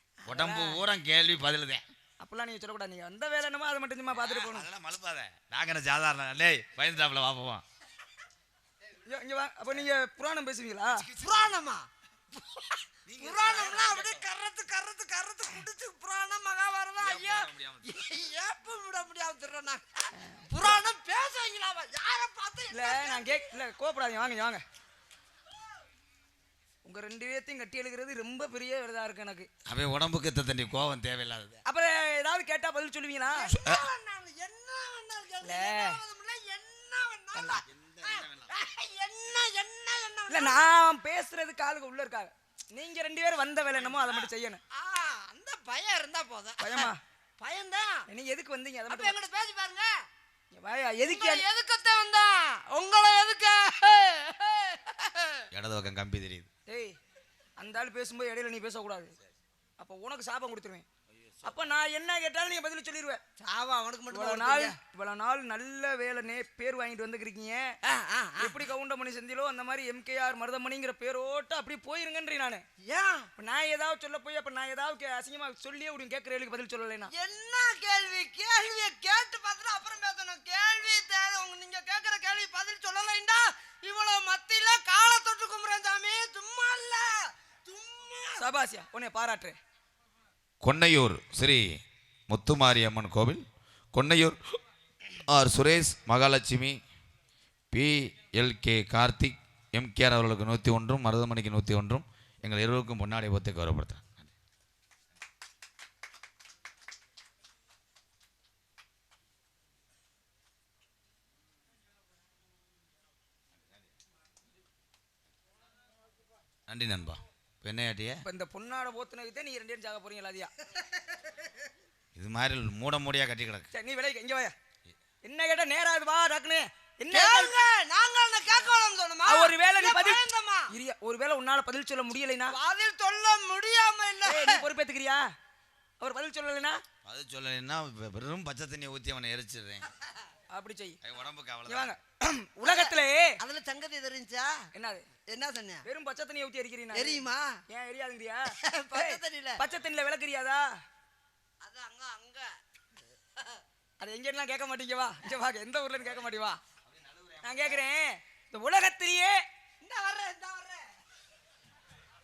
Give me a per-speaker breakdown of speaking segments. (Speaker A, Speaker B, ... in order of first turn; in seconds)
Speaker A: 0.2-0.8, 2.2-4.7, 9.0-11.1, 22.7-24.6, 26.8-29.5, 31.6-33.5, 35.4-36.0, 37.3-37.6, 40.3-44.6, 46.6-47.0, 48.1-49.1, 50.5-51.4, 56.7-57.0, 57.6-59.1, 59.8-60.9, 61.4-63.2, 64.1-67.7, 68.4-72.6, 73.4-77.1, 88.4-89.6, 118.2-120.5, 123.7-124.5, 125.2-127.6, 129.2-132.6, 134.2-135.3, 136.0-136.8, 140.5-141.0, 141.7-143.4, 144.7-145.0, 145.8-150.7, 154.0-156.6, 157.4-159.4
Speaker B: 0.2-1.8, 4.1-7.6, 11.2-11.5, 13.1-14.2, 17.0-17.9, 29.6-31.6, 33.5-33.9, 37.6-38.5, 43.7-44.3, 55.5-56.5, 61.1-61.7, 90.6-94.4, 95.3-96.8, 97.7-104.3, 116.7-118.2, 122.1-123.7, 137.0-139.8, 141.0-142.0, 156.1-156.3, 156.8-157.8
Speaker C: 11.1-23.3, 33.4-40.7, 44.7-48.1, 48.9-50.0, 51.0-55.5, 63.4-64.7, 67.8-68.6, 72.8-73.3, 77.1-88.4, 120.7-121.5, 127.1-130.7, 132.5-134.6, 142.6-144.7, 145.3-145.8, 146.9-147.6, 148.6-149.6, 151.6-153.6, 159.8-160.9